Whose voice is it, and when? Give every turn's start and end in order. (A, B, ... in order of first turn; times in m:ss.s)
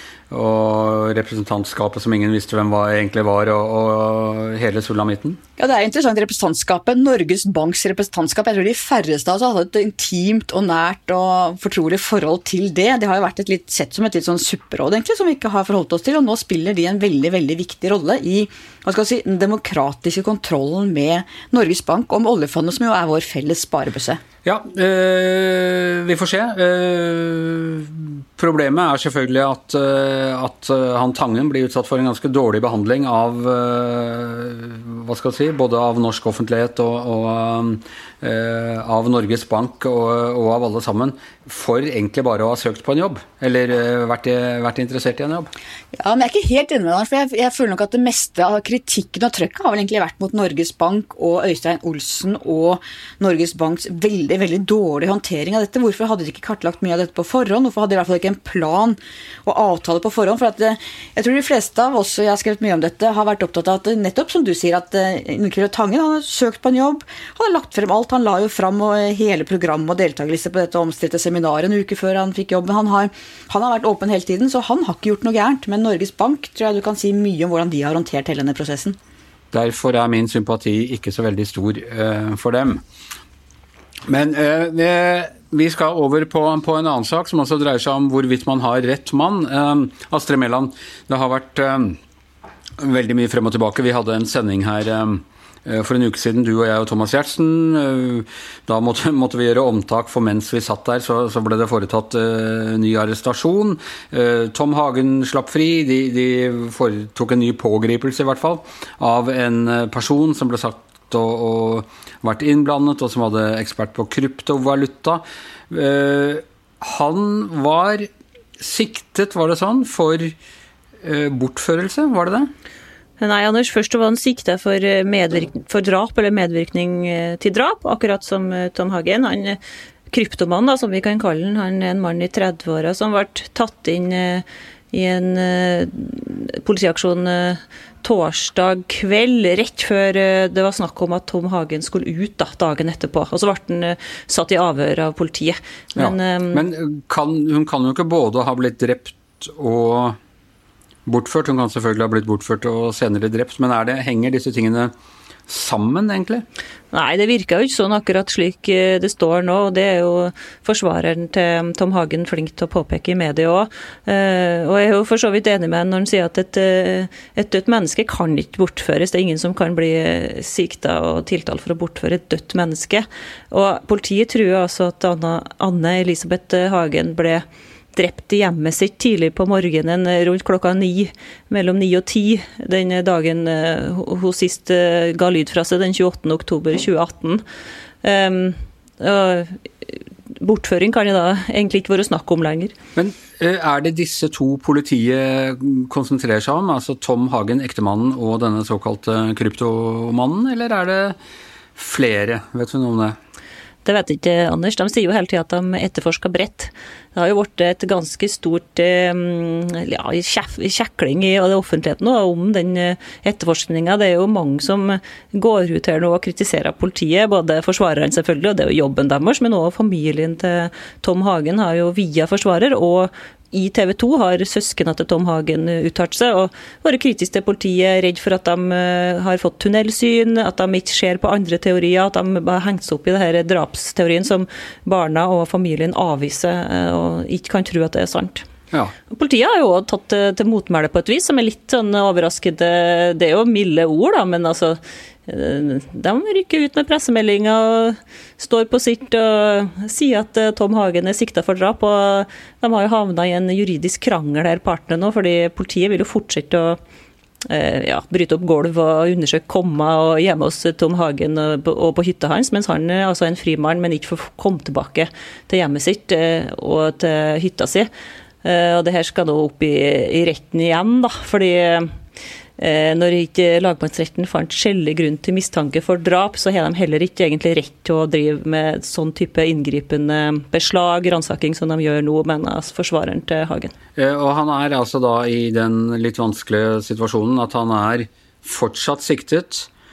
0:00.3-0:05.4 A
0:05.6-0:24.2 B
0:24.4-0:45.5 A
0:45.9-1:19.0 B
1:19.5-1:22.8 A
1:24.1-1:32.0 A
1:32.8-1:58.1 A
1:58.6-2:00.3 A
2:01.0-2:02.5 A
2:03.2-2:09.6 C
2:10.1-2:26.6 C
2:26.0-2:30.2 A
2:31.1-2:34.9 A
2:35.5-2:36.4 A
2:36.9-2:57.4 C
2:57.9-3:07.4 C
3:08.0-3:09.6 C
3:10.4-3:12.7 C
3:13.0-3:21.2 A
3:21.8-3:23.2 A
3:23.8-3:58.4 C
3:59.1-4:16.8 C
4:17.4-4:27.9 C
4:28.4-4:31.9 C
4:32.6-4:43.7 C
4:44.0-4:49.7 A